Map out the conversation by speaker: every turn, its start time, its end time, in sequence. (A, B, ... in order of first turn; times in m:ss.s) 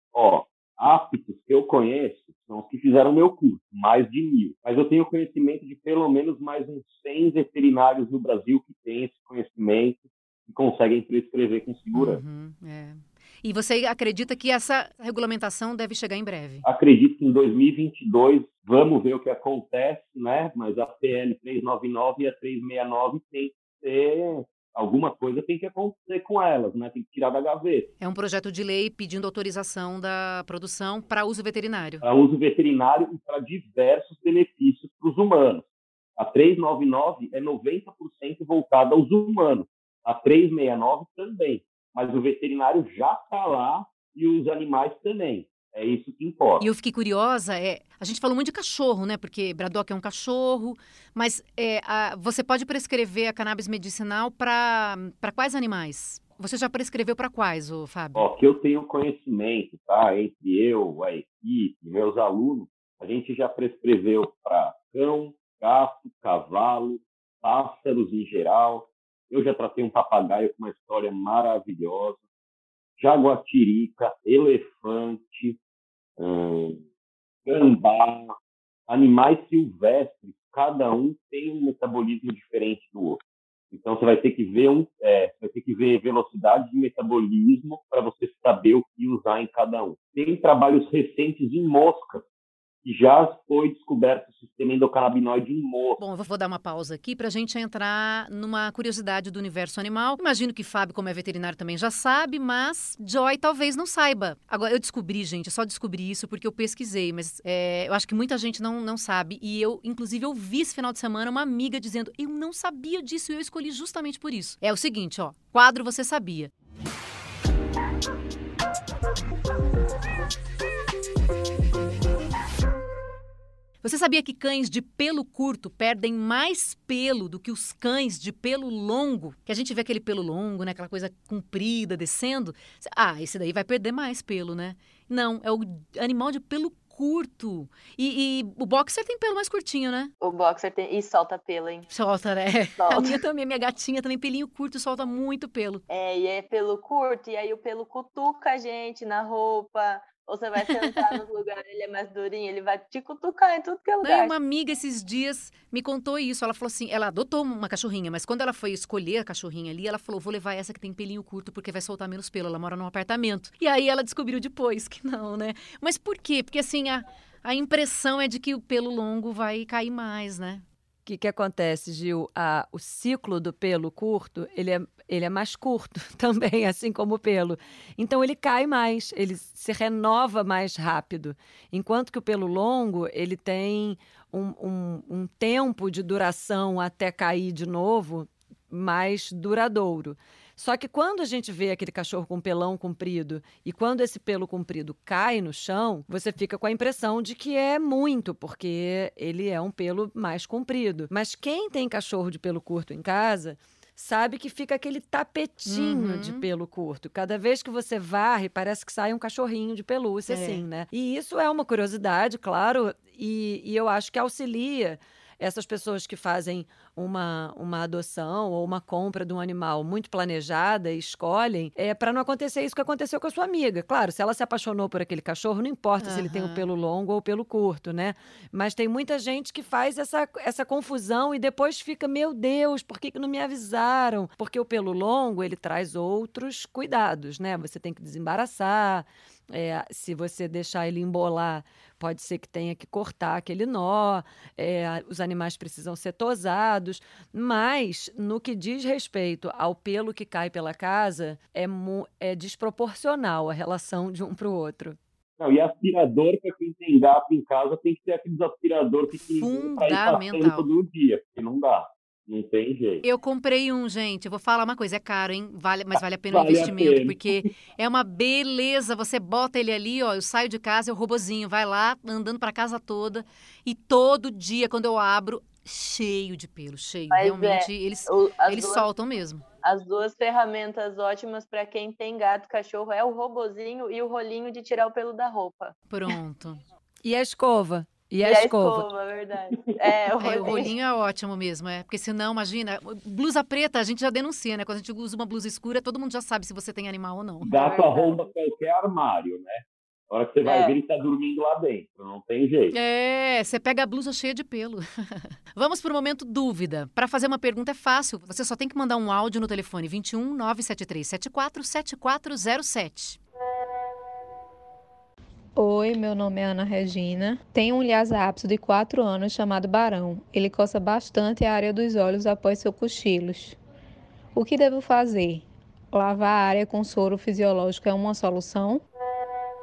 0:00.1-0:12.2 A
0:11.9-0:16.6 B
0:16.6-0:27.9 A
0:28.0-0:32.0 B
0:32.0-0:35.6 A
0:36.2-0:46.7 A
0:46.6-0:58.2 B
0:58.2-1:12.2 A
1:13.0-1:15.6 A
1:16.2-1:16.8 A
1:17.4-1:18.3 A
1:18.9-1:32.2 A
1:32.8-1:36.0 A
1:36.0-1:56.5 B
2:03.8-2:20.1 B
2:20.2-2:21.9 C
2:21.9-2:25.8 B
2:22.8-2:23.2 C
2:25.9-2:34.3 C
2:34.0-2:50.6 B
2:51.0-4:15.0 D
3:25.6-3:26.4 B
3:30.3-3:30.6 B
3:46.0-3:46.6 B
4:15.4-4:23.0 A
4:19.2-4:20.6 B
4:23.0-4:39.4 B
4:26.0-4:27.4 A
4:37.1-4:38.8 C
4:39.6-4:45.7 C
4:45.9-4:46.6 B
4:47.0-4:48.8 D
4:48.2-4:50.7 C
4:49.6-4:50.6 A
4:50.2-4:57.5 B
4:57.4-5:02.7 A
4:57.5-4:58.3 C
5:00.4-5:00.8 C
5:02.7-5:13.2 B
5:15.6-5:23.6 E
5:24.3-5:28.8 E